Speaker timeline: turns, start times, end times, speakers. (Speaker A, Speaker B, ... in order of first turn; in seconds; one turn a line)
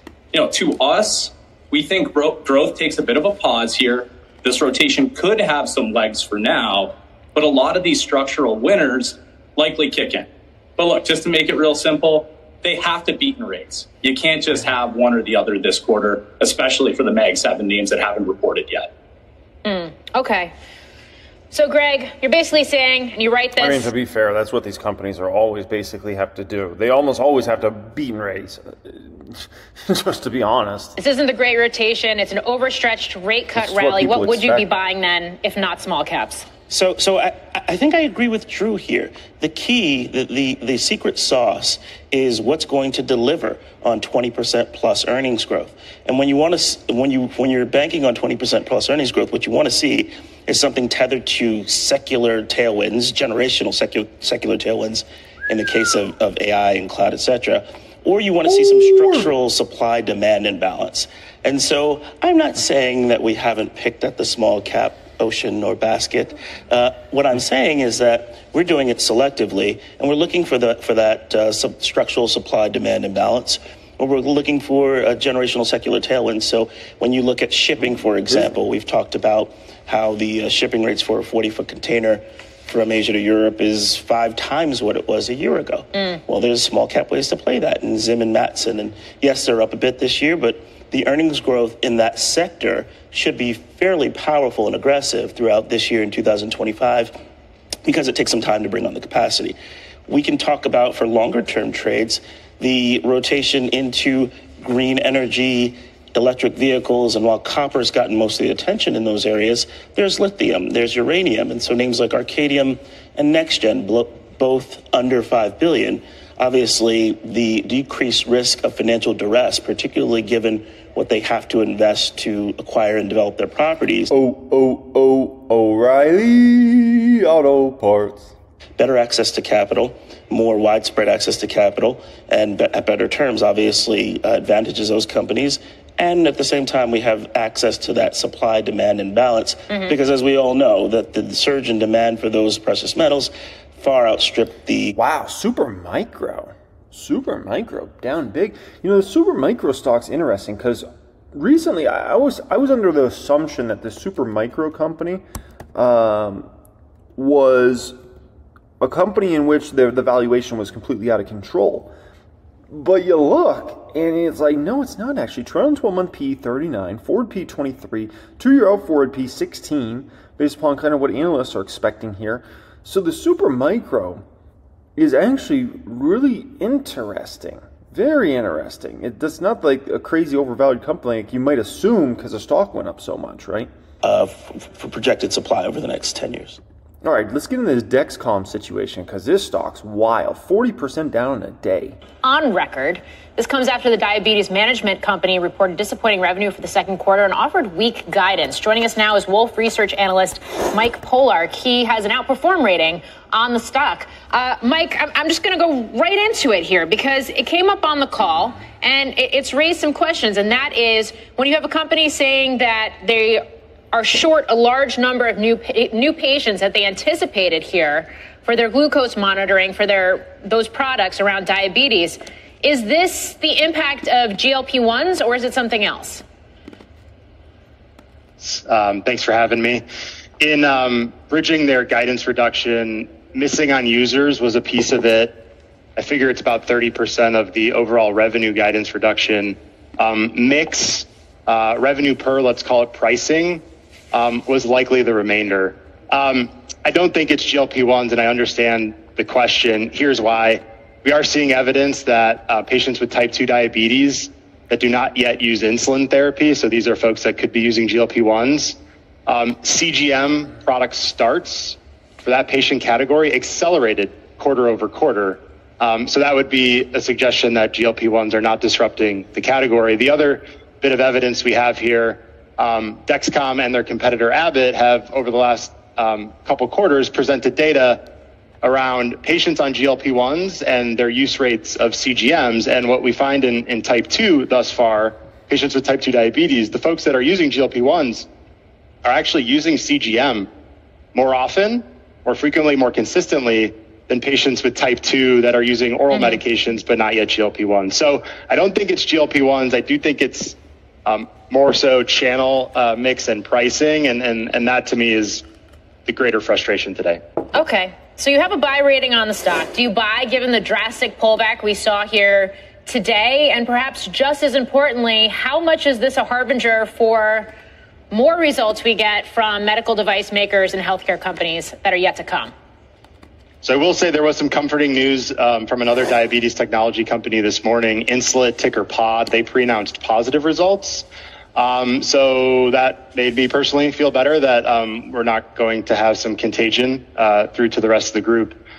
Speaker A: 0.3-18.9
Speaker B: 19.6-20.5
Speaker B: 21.5-23.9
Speaker C: 23.6-31.0
Speaker B: 31.0-36.5
Speaker C: 33.5-34.6
Speaker D: 36.7-97.1
Speaker C: 58.5-59.3
Speaker D: 97.8-99.5
Speaker D: 100.1-124.1
Speaker C: 124.1-128.3
Speaker D: 128.8-144.9
Speaker C: 144.9-155.2
Speaker C: 155.7-156.5
Speaker C: 157.2-158.0
Speaker C: 158.8-161.9
Speaker C: 162.7-174.2
Speaker C: 174.9-183.7
Speaker D: 184.0-186.6
Speaker C: 187.0-192.0
Speaker B: 192.2-226.2
Speaker E: 228.4-229.8
Speaker E: 230.4-235.4
Speaker E: 236.0-278.0
Speaker E: 278.6-288.2
Speaker E: 289.0-290.5
Speaker E: 291.1-305.4
Speaker B: 296.1-296.4
Speaker E: 306.1-307.2
Speaker B: 307.5-317.5
Speaker B: 318.1-322.5
Speaker E: 323.6-338.6